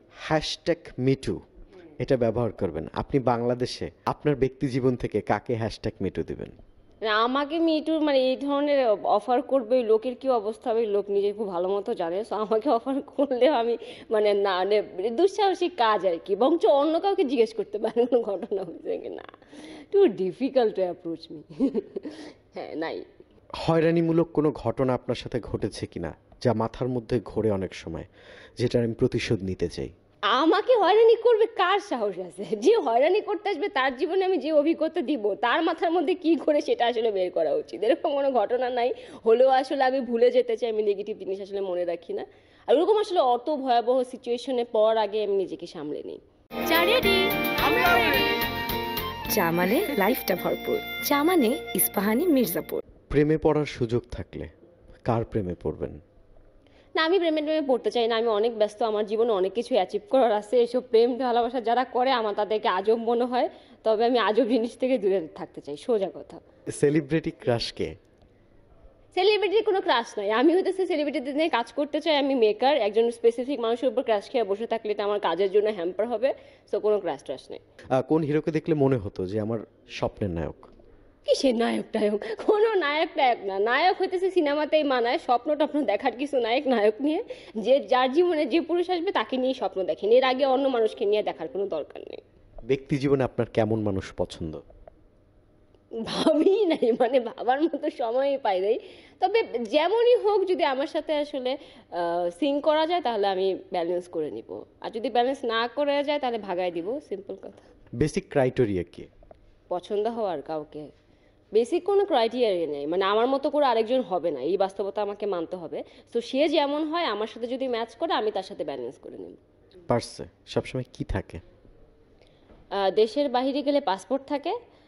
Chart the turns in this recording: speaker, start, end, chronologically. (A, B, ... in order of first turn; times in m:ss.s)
0:00.2-0:01.4 A
0:02.0-0:06.5 A
0:07.0-0:23.0 B
0:23.6-0:28.1 A
0:28.6-0:29.9 A
0:30.3-0:48.1 B
0:49.3-0:52.8 C
0:53.1-0:54.5 A
0:55.1-0:56.0 A
0:57.0-1:06.4 B
1:06.8-1:07.9 A
1:09.1-1:17.6 B
1:18.0-1:20.7 A
1:21.2-1:32.2 B
1:32.7-1:34.6 A
1:36.0-1:47.7 B
1:48.0-1:49.1 A
1:49.7-1:50.9 B
1:51.5-1:59.4 B
1:59.9-2:01.4 A
2:02.8-2:04.5 B